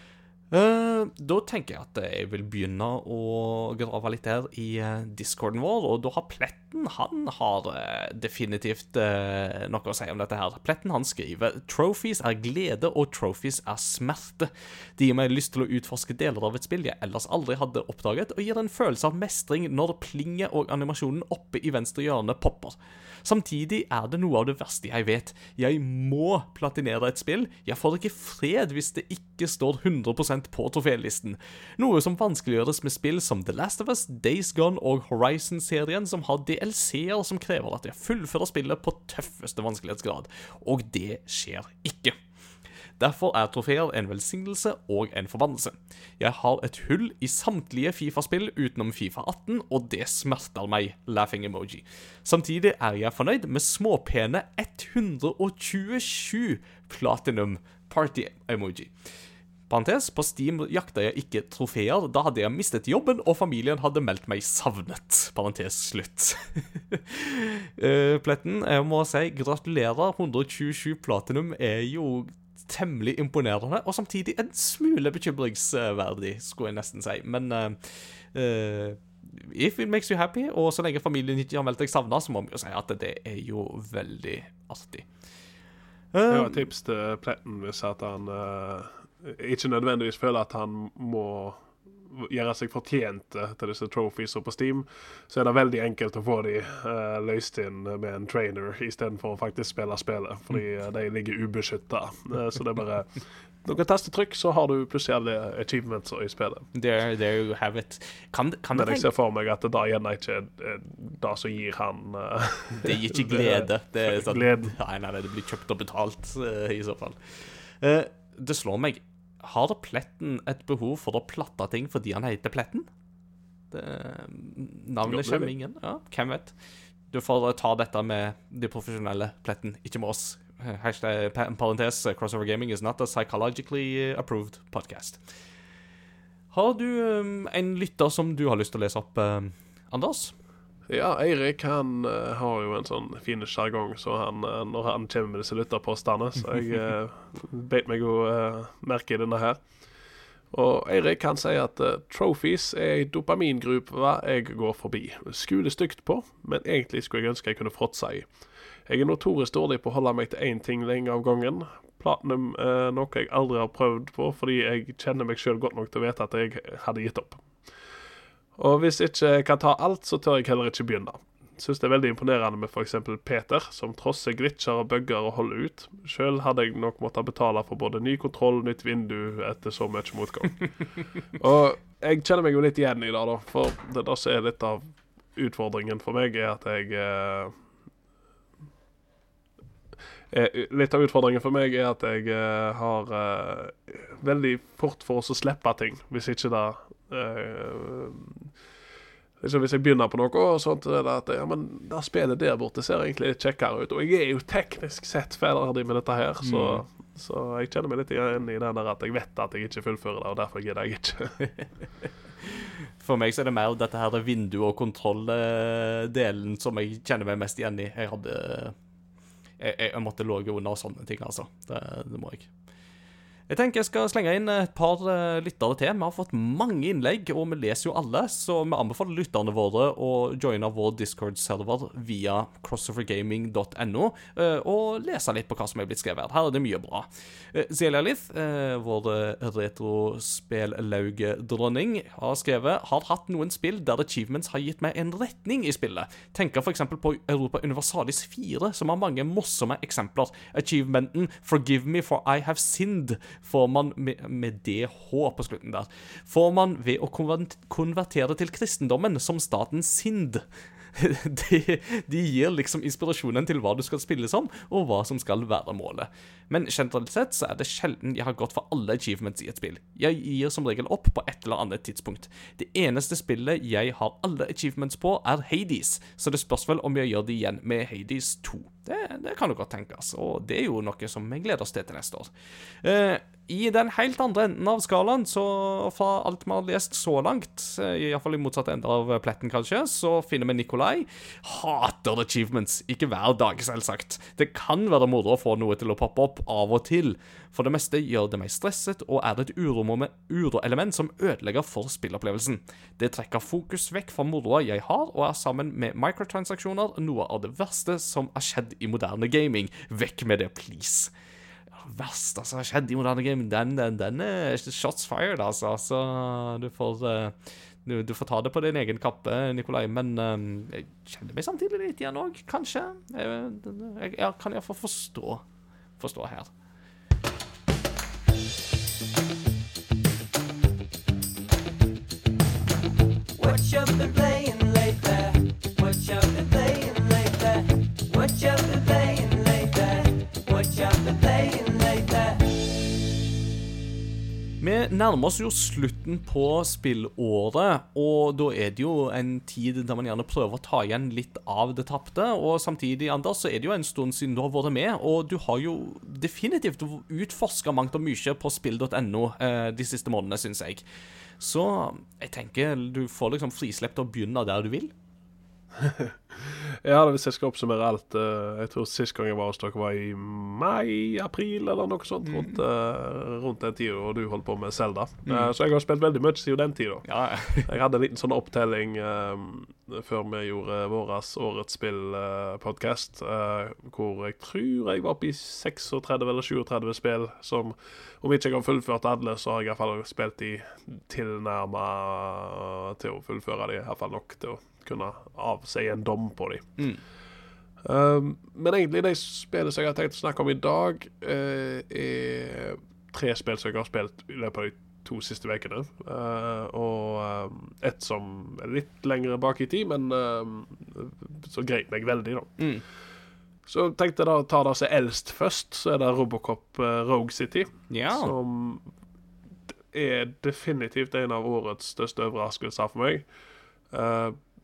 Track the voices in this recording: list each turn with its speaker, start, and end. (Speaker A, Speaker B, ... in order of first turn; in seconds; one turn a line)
Speaker A: 0.5-42.1
Speaker A: 43.0-58.9
Speaker A: 59.7-85.1
Speaker A: 86.1-86.7
Speaker B: 86.3-106.7
Speaker A: 106.7-109.1
Speaker B: 108.7-114.7
Speaker A: 112.8-122.9
Speaker A: 123.7-126.5
Speaker B: 125.1-125.5
Speaker A: 127.1-135.2
Speaker A: 136.5-140.3
Speaker B: 140.9-149.6
Speaker B: 150.5-158.3
Speaker B: 158.8-167.5
Speaker B: 168.6-180.7
Speaker B: 181.4-187.5
Speaker B: 190.3-198.5
Speaker B: 199.4-211.4
Speaker A: 206.4-206.8
Speaker A: 212.4-218.8
Speaker A: 219.6-222.5
Speaker A: 223.5-311.1
Speaker A: 311.8-325.4
Speaker A: 326.0-326.5
Speaker C: 333.3-342.4
Speaker A: 344.6-360.8
Speaker A: 361.4-364.9
Speaker B: 365.7-377.1
Speaker A: 372.2-372.6
Speaker A: 375.2-375.5
Speaker A: 377.1-377.7
Speaker B: 377.6-396.7
Speaker B: 397.8-412.6
Speaker A: 412.6-412.8
Speaker B: 413.6-418.8
Speaker A: 417.9-418.3
Speaker B: 419.9-423.3
Speaker B: 423.9-424.4